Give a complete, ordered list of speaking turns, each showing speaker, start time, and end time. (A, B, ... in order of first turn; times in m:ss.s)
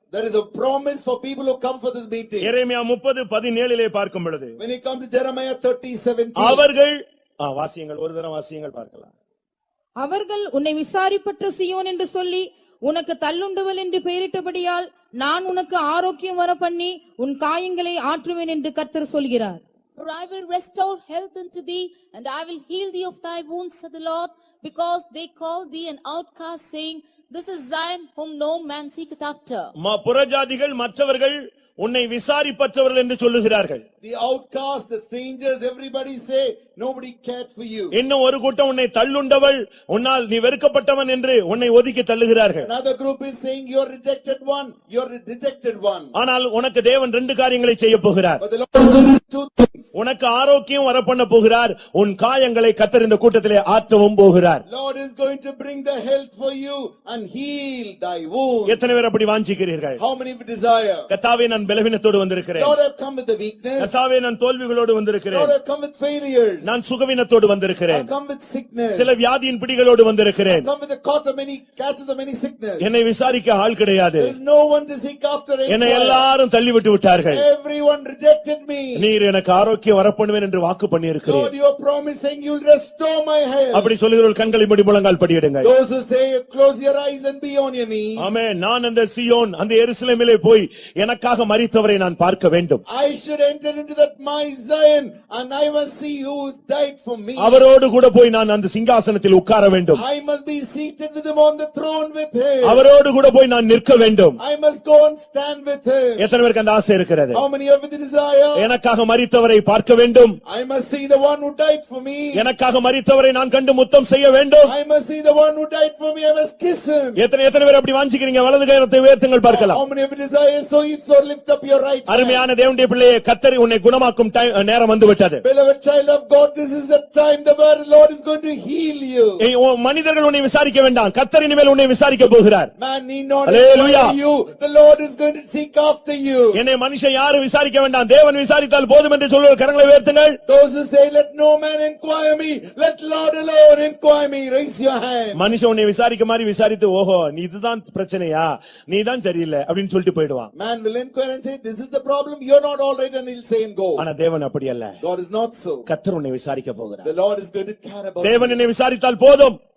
0:00.1-0:02.5 A
0:02.4-0:04.6 B
0:04.6-0:06.6 A
0:06.4-0:09.1 B
0:10.0-0:19.6 C
0:20.0-0:29.7 D
0:29.8-0:33.8 B
0:34.0-0:38.0 A
0:37.9-0:42.7 B
0:42.6-0:46.1 A
0:46.1-0:48.4 B
0:48.4-0:49.9 A
0:49.9-0:54.6 B
0:54.6-0:58.8 A
0:58.7-1:00.0 B
1:00.0-1:01.1 A
1:01.1-1:02.8 B
1:02.6-1:03.9 A
1:03.8-1:05.5 B
1:05.3-1:06.7 A
1:06.6-1:08.1 B
1:07.9-1:09.2 A
1:08.9-1:10.7 B
1:10.5-1:12.8 A
1:12.8-1:14.3 B
1:14.2-1:16.3 A
1:15.7-1:17.4 B
1:17.3-1:19.0 A
1:19.0-1:21.5 B
1:21.2-1:23.9 A
1:23.7-1:25.7 B
1:25.6-1:28.3 A
1:28.2-1:32.8 B
1:32.9-1:37.6 A
1:37.4-1:40.0 B
1:40.0-1:42.8 A
1:42.6-1:44.4 B
1:44.4-1:46.2 A
1:46.2-1:47.4 B
1:47.3-1:48.7 A
1:48.6-1:50.4 B
1:50.4-1:52.5 A
1:52.3-1:54.7 B
1:54.6-1:57.2 A
1:57.2-1:59.8 B
1:59.5-2:02.4 A
2:02.1-2:05.4 B
2:05.4-2:09.4 A
2:09.4-2:12.7 B
2:12.8-2:16.6 A
2:13.4-2:14.2 B
2:16.5-2:20.4 B
2:20.4-2:25.4 A
2:25.3-2:30.5 B
2:30.5-2:34.0 A
2:34.0-2:35.0 B
2:35.0-2:35.9 A
2:35.9-2:37.1 B
2:37.0-2:38.6 A
2:38.2-2:39.6 B